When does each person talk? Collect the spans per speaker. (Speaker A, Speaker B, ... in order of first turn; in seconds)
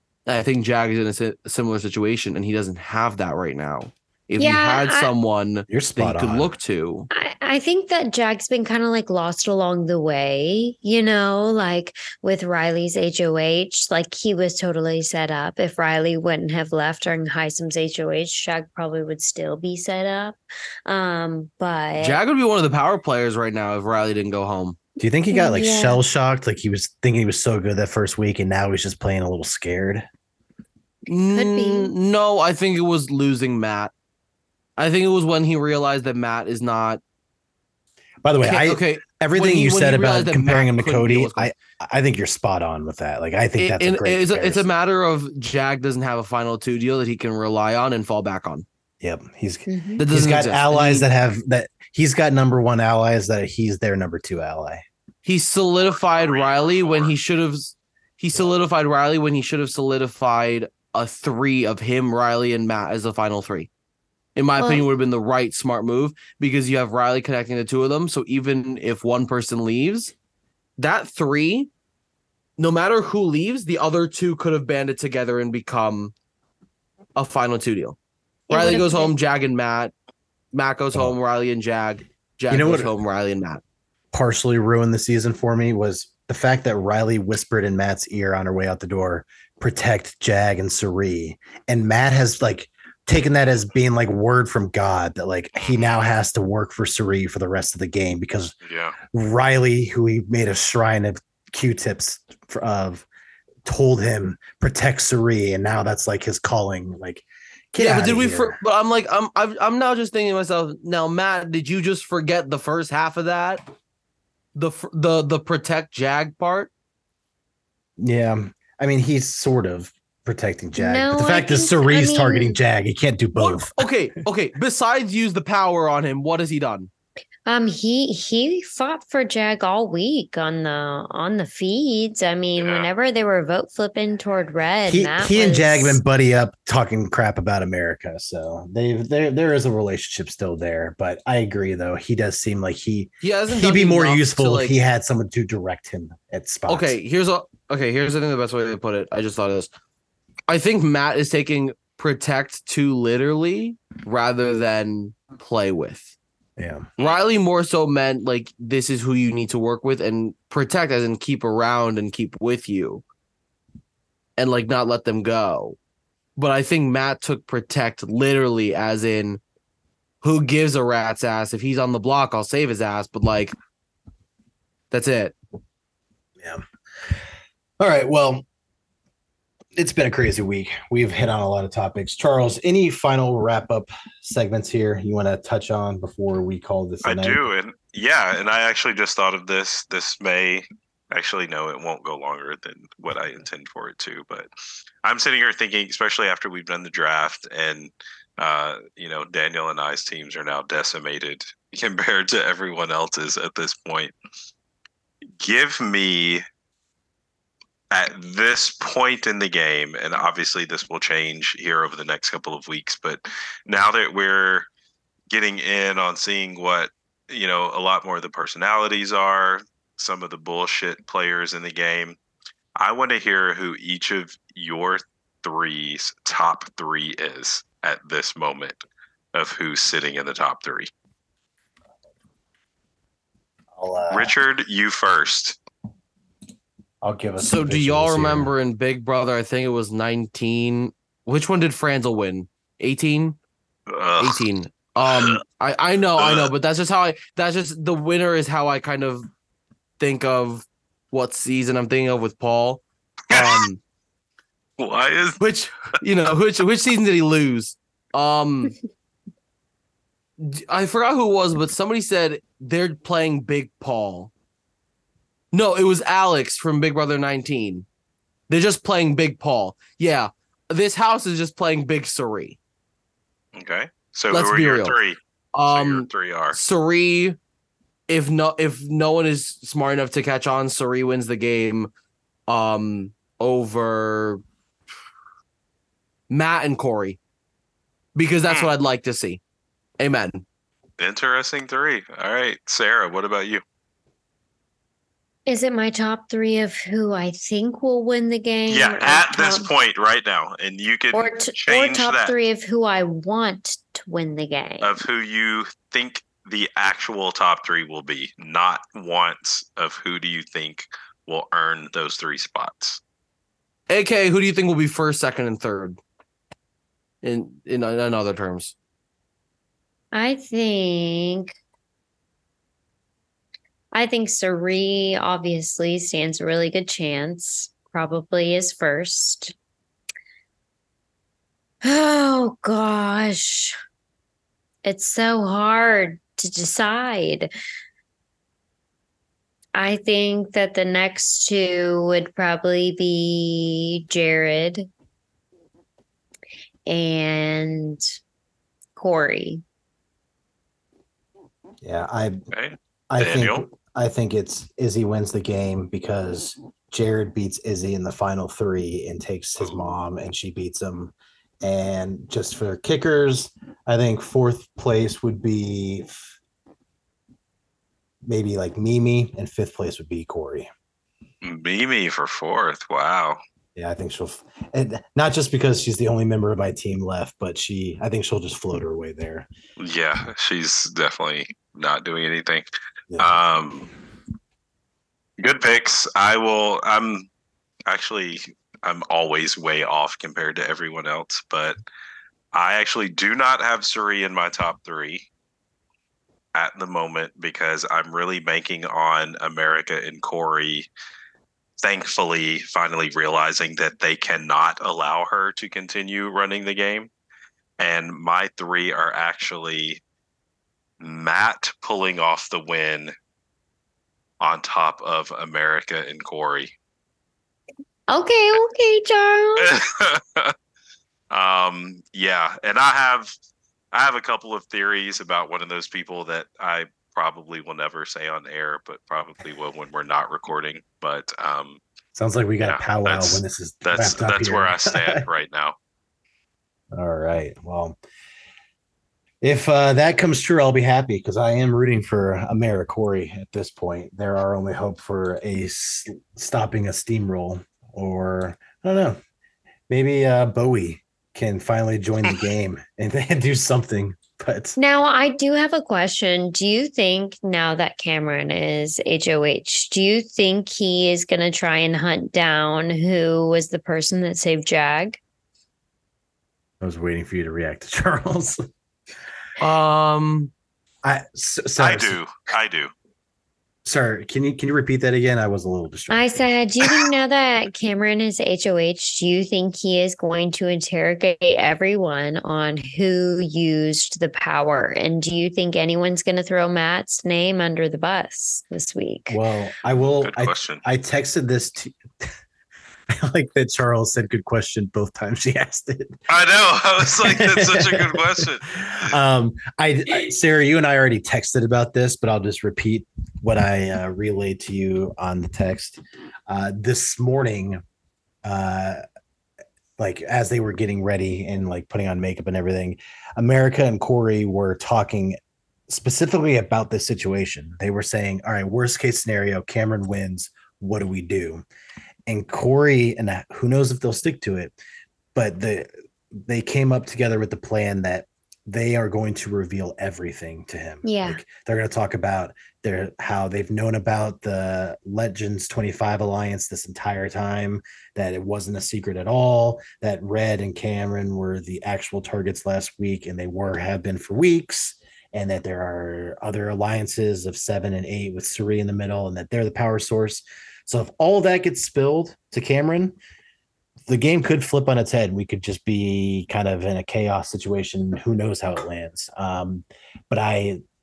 Speaker A: 0.3-7.1, 22.0-24.8, 31.1-33.9, 34.8-37.0, 38.4-41.5, 43.6-48.7, 50.0-51.1, 55.2-63.7, 64.4-70.1, 70.8-71.7, 72.6-76.1, 77.2-78.0, 78.5-79.9, 80.5-83.6, 107.8-113.6, 114.5-116.7, 123.4-126.9, 143.2-144.8, 146.7-149.7, 150.5-156.2, 157.0-163.0, 164.4-165.8, 166.4-169.4, 170.2-173.6, 174.9-175.3, 237.4-243.4, 244.2-249.3, 250.0-253.8, 255.4-258.7, 260.4-264.3, 265.5-267.9, 268.5-272.6, 274.3-275.0, 275.5-277.4, 278.1-281.9, 282.5-284.4, 286.3-287.2, 288.1-289.4, 290.0-290.4, 313.9-316.0, 317.2-318.7, 469.6-470.5
Speaker B: 4.4-5.1, 7.1-22.2, 25.3-26.0, 31.3-31.9, 49.7-50.0, 64.6-64.8, 78.5-79.1, 120.8-122.6, 127.5-136.0, 295.5-299.7, 301.1-305.0, 320.1-321.5, 323.9-329.6, 331.8-333.8, 334.9-337.5, 339.8-344.9, 346.9-348.0, 349.0-349.6, 418.1-419.7, 454.8-465.2, 476.1-489.4, 531.0-531.4
Speaker C: 5.7-6.5, 25.0-30.1, 38.2-44.7, 49.0-54.9, 82.5-82.9, 84.1-98.5, 99.0-103.1, 103.7-108.6, 118.0-123.8, 134.9-147.0, 156.6-156.9, 176.4-177.2, 177.8-178.4, 179.8-187.4, 233.7-234.3, 237.0-238.5, 351.8-352.4, 353.1-366.4, 368.2-370.7, 373.8-379.5, 383.1-383.4, 432.1-435.2, 436.9-438.0, 439.4-449.2, 449.9-454.8, 466.8-468.7, 471.0-472.2, 473.9-476.5, 489.3-492.3, 493.1-496.2, 497.0-507.8, 508.4-509.0, 510.0-515.4, 515.9-521.6, 522.3-524.8, 525.4-553.2, 554.1-560.8
Speaker D: 56.1-57.1, 95.6-96.0, 98.6-99.0, 132.6-132.9, 187.0-194.5, 195.0-204.2, 205.4-206.4, 207.9-214.7, 215.3-222.2, 222.8-228.8, 229.3-230.9, 234.1-235.6, 243.9-244.4, 245.1-245.4, 246.2-246.5, 253.3-253.7, 254.8-255.4, 273.6-275.2, 275.7-276.6, 291.0-293.6, 298.7-302.3, 304.8-313.0, 352.5-353.6, 371.4-373.4, 379.8-383.9, 385.4-387.3, 387.9-391.8, 392.5-395.3, 396.5-400.9, 401.8-407.1, 407.8-410.0, 411.0-413.1, 414.4-416.7, 419.6-420.6, 421.3-423.3, 423.9-431.8, 432.6-435.8, 471.8-472.9, 490.2-490.8, 496.3-499.1